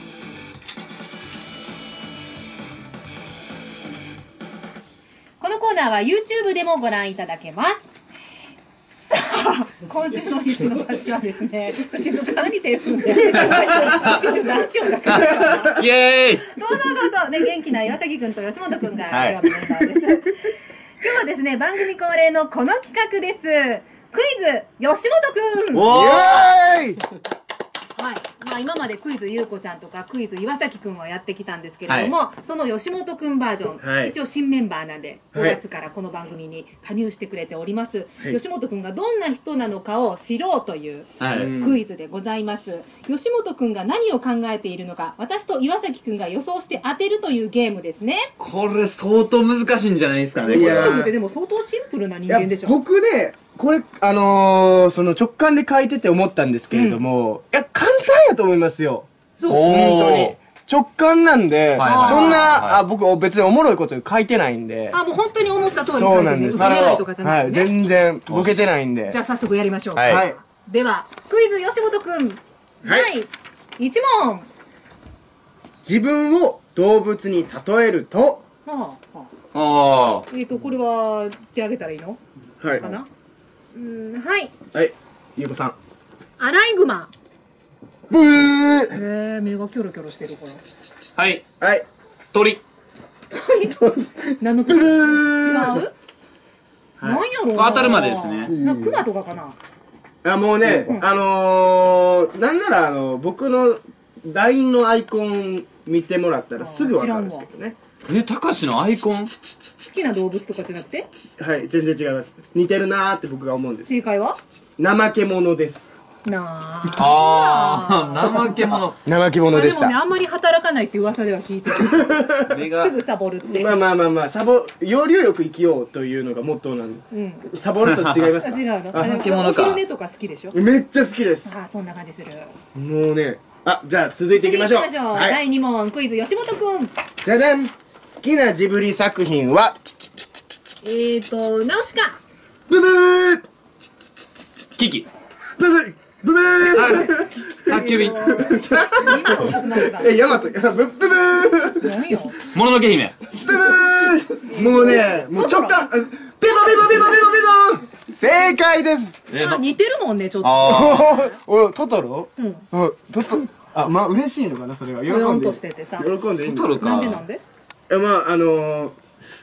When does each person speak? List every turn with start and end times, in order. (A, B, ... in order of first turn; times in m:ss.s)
0:05.4-0:07.9 A
0:08.9-0:15.8 A
0:13.4-0:14.3 B
0:15.0-0:16.5 B
0:16.4-0:26.0 A
0:19.1-0:19.4 B
0:25.7-0:26.5 B
0:25.9-0:27.0 C
0:27.9-0:48.3 A
0:33.8-0:34.1 C
0:35.3-0:35.6 C
0:41.2-0:41.6 B
0:41.3-0:41.8 C
0:48.4-0:51.0 B
0:50.4-0:52.8 A
0:50.5-0:51.1 C
0:52.3-1:05.0 C
0:56.7-0:57.0 A
0:59.4-0:59.6 A
0:59.5-1:00.4 B
1:01.8-1:02.8 B
1:01.8-1:02.5 A
1:04.9-1:07.7 A
1:05.9-1:09.2 C
1:06.5-1:07.0 B
1:08.3-1:08.6 B
1:09.1-1:14.5 A
1:10.0-1:10.2 B
1:10.0-1:10.4 C
1:12.8-1:13.1 C
1:15.8-1:18.4 C
1:18.6-1:19.3 A
1:19.5-1:20.2 B
1:20.3-1:22.2 A
1:22.6-1:23.0 C
1:22.8-1:23.1 A
1:23.7-1:24.5 A
1:24.7-1:25.8 C
1:26.4-1:27.1 A
1:28.1-1:29.0 C
1:28.9-1:30.6 A
1:31.2-1:31.4 B
1:31.6-1:31.8 C
1:32.3-1:32.6 B
1:33.3-1:33.9 A
1:33.7-1:35.8 C
1:34.4-1:35.9 A
1:37.0-1:39.6 A
1:37.5-1:38.5 B
1:38.5-1:39.0 C
1:40.2-1:47.8 C
1:46.6-1:47.5 A
1:48.1-1:49.3 B
1:49.8-1:51.1 A
1:51.3-1:53.9 C
1:53.8-1:54.4 A
1:54.8-1:55.9 C
1:56.2-1:58.8 A
1:56.9-1:59.0 B
1:59.0-1:59.9 C
1:59.5-2:03.8 A
2:01.7-2:02.6 C
2:02.5-2:02.9 B
2:03.5-2:09.3 C
2:07.1-2:07.5 A
2:07.8-2:08.2 B
2:08.4-2:10.6 A
2:09.0-2:09.8 B
2:10.5-2:11.5 C
2:11.4-2:12.5 A
2:12.7-2:15.4 C
2:14.3-2:16.9 A
2:17.2-2:20.2 C
2:20.8-2:22.2 A
2:22.7-2:23.4 C
2:24.8-2:25.1 B
2:25.6-2:32.0 C
2:26.6-2:28.4 B
2:27.6-2:30.4 A
2:31.7-2:32.4 A
2:32.5-2:33.2 B
2:33.3-2:39.2 C
2:34.5-2:35.9 A
2:36.5-2:37.5 A
2:39.3-2:39.6 B
2:39.4-2:41.4 A
2:40.4-2:41.1 B
2:40.6-2:47.1 C
2:42.4-2:42.6 A
2:45.0-2:46.1 A
2:46.4-2:47.2 B
2:46.8-2:47.4 A
2:47.9-2:49.0 C